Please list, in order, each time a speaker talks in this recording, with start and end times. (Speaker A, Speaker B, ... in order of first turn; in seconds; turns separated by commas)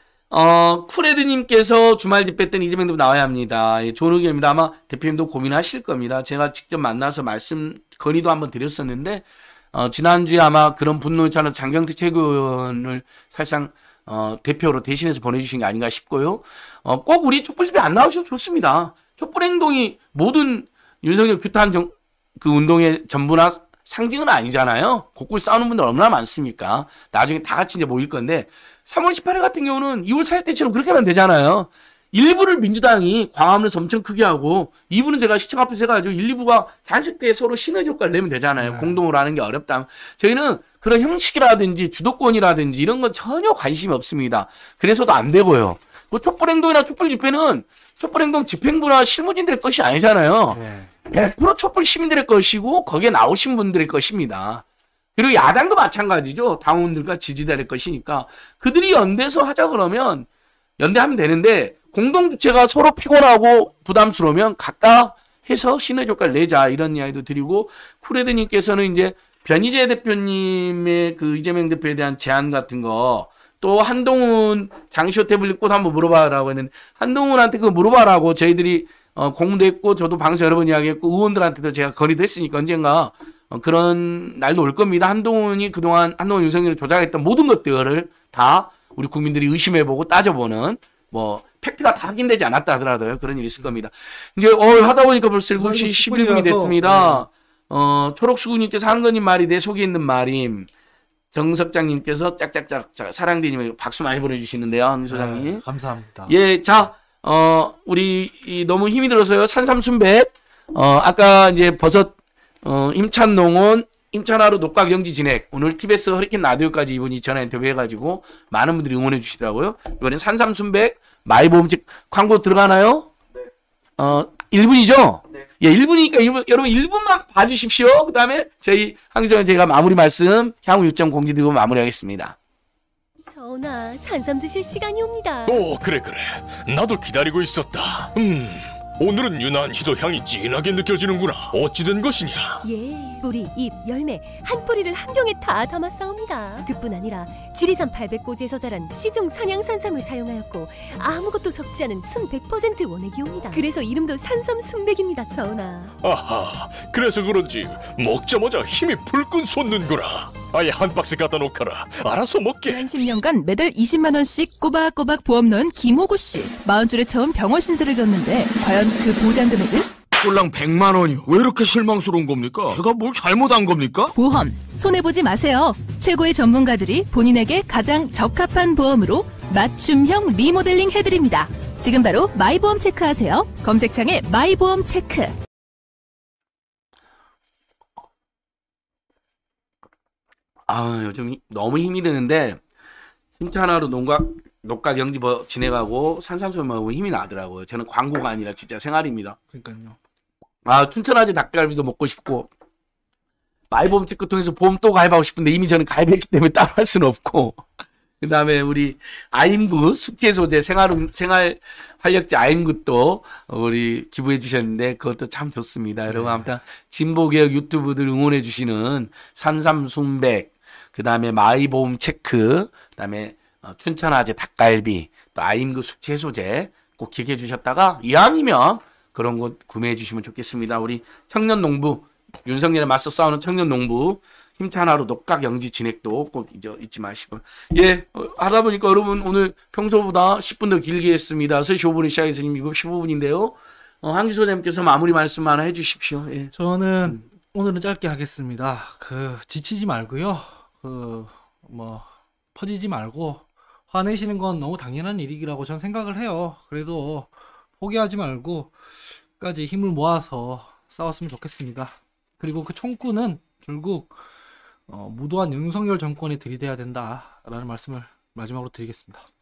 Speaker A: 0.3-54.6, Speaker B: 38.6-39.0, Speaker B: 50.5-50.9, Speaker A: 55.1-60.3, Speaker A: 60.8-100.7, Speaker B: 95.5-97.3, Speaker A: 101.3-105.6, Speaker B: 105.1-106.4, Speaker A: 106.3-123.1, Speaker A: 124.0-132.4, Speaker C: 133.3-135.6, Speaker D: 135.4-142.6, Speaker C: 142.6-155.9, Speaker D: 156.0-162.9, Speaker E: 162.6-169.9, Speaker F: 170.1-174.1, Speaker E: 174.2-185.3, Speaker A: 190.7-192.6, Speaker A: 193.4-199.4, Speaker B: 199.5-200.0, Speaker A: 200.6-202.5, Speaker A: 203.7-207.6, Speaker A: 208.2-246.5, Speaker B: 216.1-216.4, Speaker B: 246.5-258.7, Speaker B: 259.4-264.1, Speaker B: 264.9-269.2